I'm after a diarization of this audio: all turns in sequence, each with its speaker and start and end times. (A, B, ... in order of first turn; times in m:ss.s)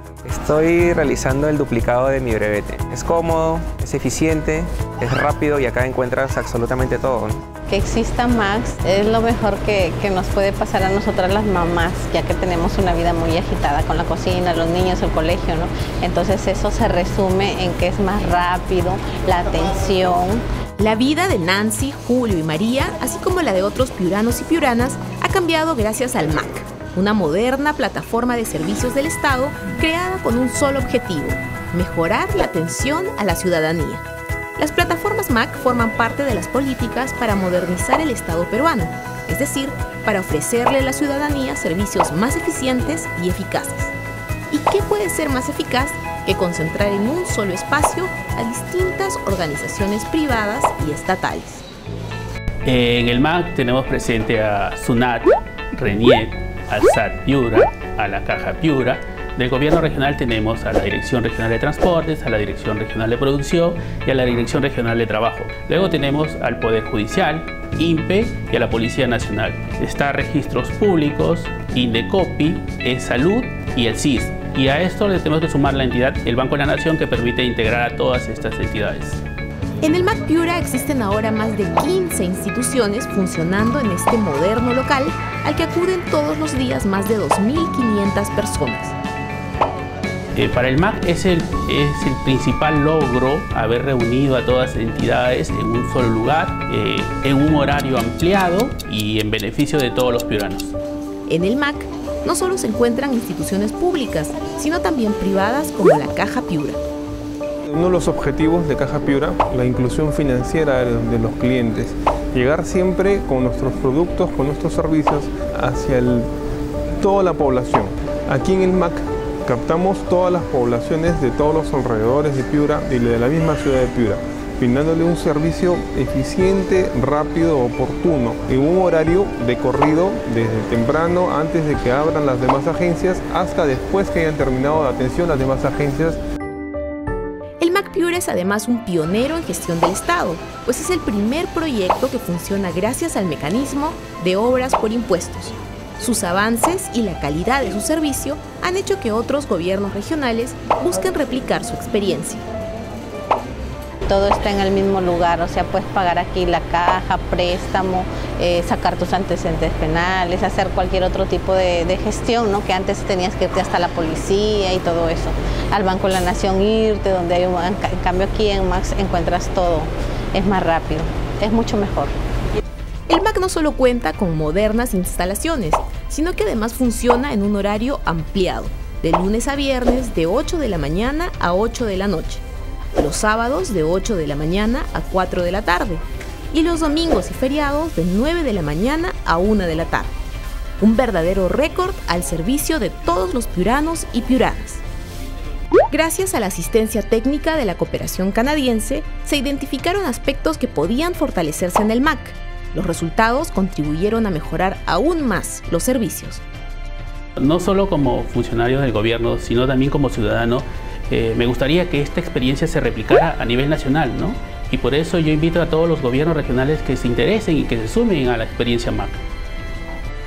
0:00.2-0:07.4 A
0:07.7-0:20.4 B
0:20.8-0:34.0 C
0:34.6-0:43.9 C
0:44.5-0:51.6 C
0:52.6-1:19.2 D
1:19.8-1:28.9 C
1:30.4-1:40.7 D
1:41.3-1:46.8 C
1:47.7-1:56.3 E
1:57.0-2:16.2 E
2:17.6-2:32.4 C
2:34.1-2:52.1 B
2:53.1-3:02.4 C
3:02.9-3:10.1 C
3:10.8-3:14.8 C
3:15.9-3:26.4 C
3:27.4-3:39.2 D